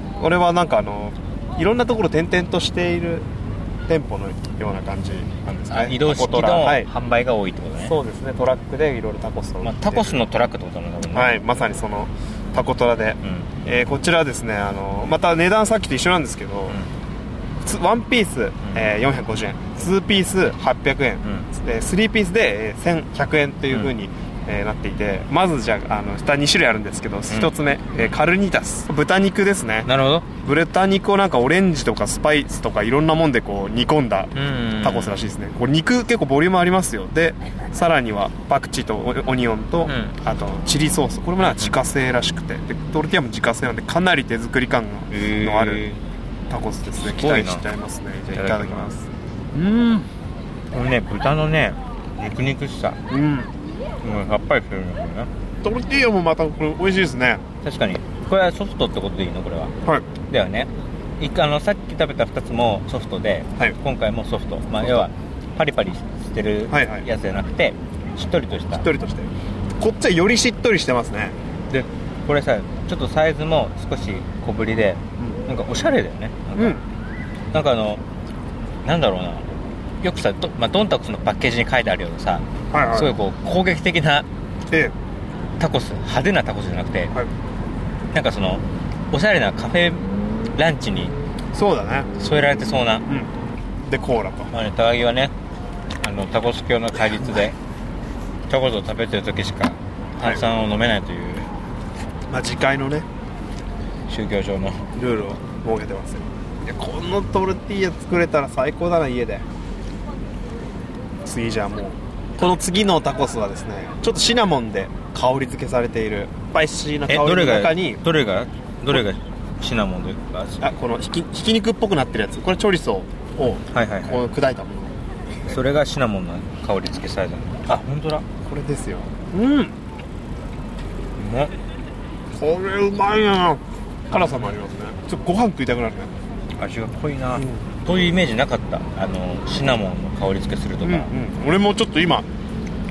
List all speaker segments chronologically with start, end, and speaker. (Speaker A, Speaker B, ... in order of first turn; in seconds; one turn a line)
Speaker A: 0.2-3.3
Speaker A: 3.9-6.9
Speaker B: 5.5-7.9
Speaker A: 7.8-10.2
Speaker B: 9.6-11.3
Speaker A: 11.1-16.8
Speaker B: 13.2-13.5
Speaker A: 17.6-29.9
Speaker B: 18.6-18.9
Speaker B: 27.3-28.1
Speaker B: 29.8-30.2
Speaker A: 30.4-45.8
Speaker B: 34.3-35.3
Speaker B: 39.9-40.2
Speaker B: 41.4-41.7
Speaker B: 45.1-46.0
Speaker A: 46.5-50.1
Speaker B: 47.0-47.6
Speaker B: 48.3-48.9
Speaker B: 50.7-53.0
Speaker A: 53.1-53.5
Speaker B: 54.0-55.3
Speaker A: 55.6-57.4
Speaker B: 57.6-59.7
Speaker B: 60.3-68.9
Speaker A: 64.8-65.1
Speaker A: 66.7-67.0
Speaker A: 68.7-71.3
Speaker B: 71.7-76.8
Speaker A: 76.5-76.8
Speaker B: 77.5-78.0
Speaker B: 78.8-84.2
Speaker A: 82.7-83.2
Speaker B: 85.6-87.1
Speaker B: 88.1-91.2
Speaker A: 91.5-92.1
Speaker B: 92.2-93.0
Speaker A: 93.8-94.5
Speaker B: 94.5-95.3
Speaker B: 96.0-97.5
Speaker B: 98.5-101.5
Speaker A: 102.3-103.1
Speaker B: 104.1-104.9
Speaker A: 104.9-109.4
Speaker A: 111.2-118.0
Speaker B: 117.1-120.7
Speaker A: 120.6-124.9
Speaker B: 123.7-124.2
Speaker B: 125.5-128.2
Speaker A: 128.4-129.7
Speaker B: 131.2-131.5
Speaker A: 132.3-136.1
Speaker B: 134.2-134.5
Speaker B: 136.6-141.1
Speaker A: 137.3-137.7
Speaker A: 140.8-142.2